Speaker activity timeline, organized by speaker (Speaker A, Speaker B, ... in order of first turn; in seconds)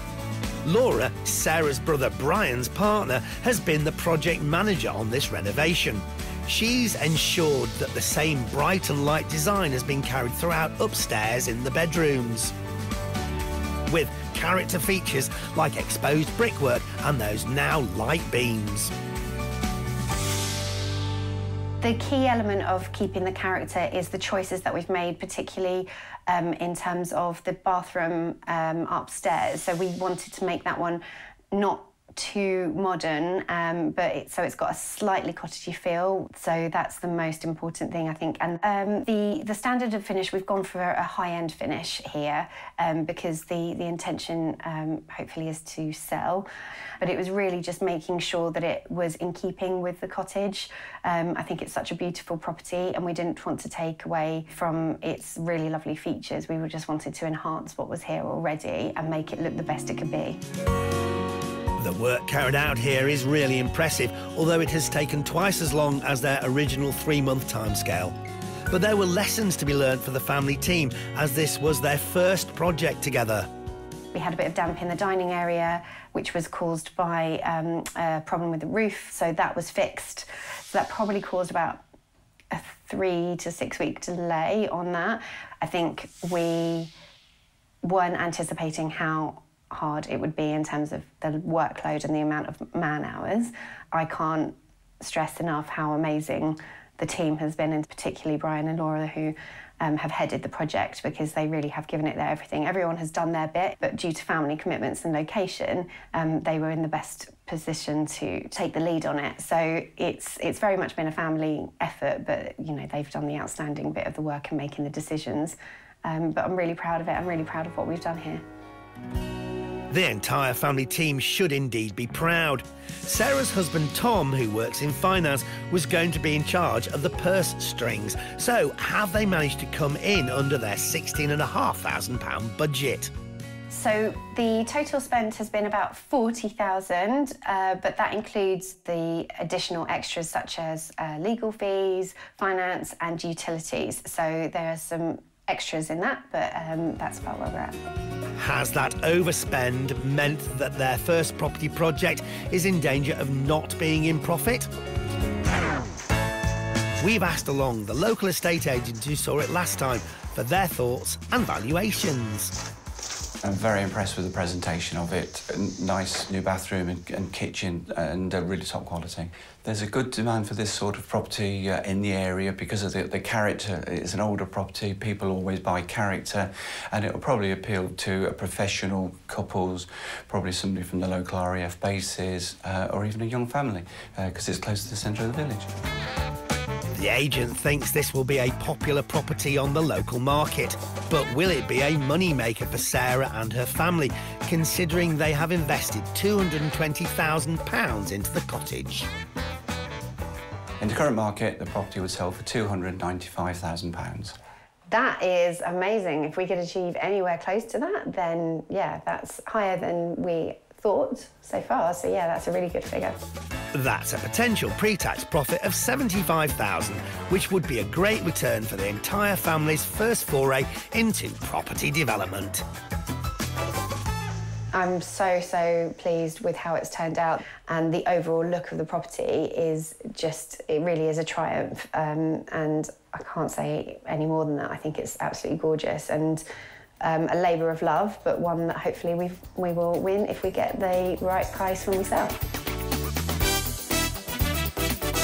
Speaker A: 0.7-12.5, 13.9-18.9, 61.8-68.2, 68.7-73.5, 119.9-133.1, 148.4-154.7, 157.0-162.5, 186.9-199.1, 213.7-222.6
Speaker B: 21.8-46.5, 47.0-60.4, 74.1-81.8, 82.5-86.9, 87.8-118.4, 133.7-147.8, 204.9-213.2, 224.7-236.4, 237.0-242.4
Speaker C: 163.4-185.7, 200.8-204.3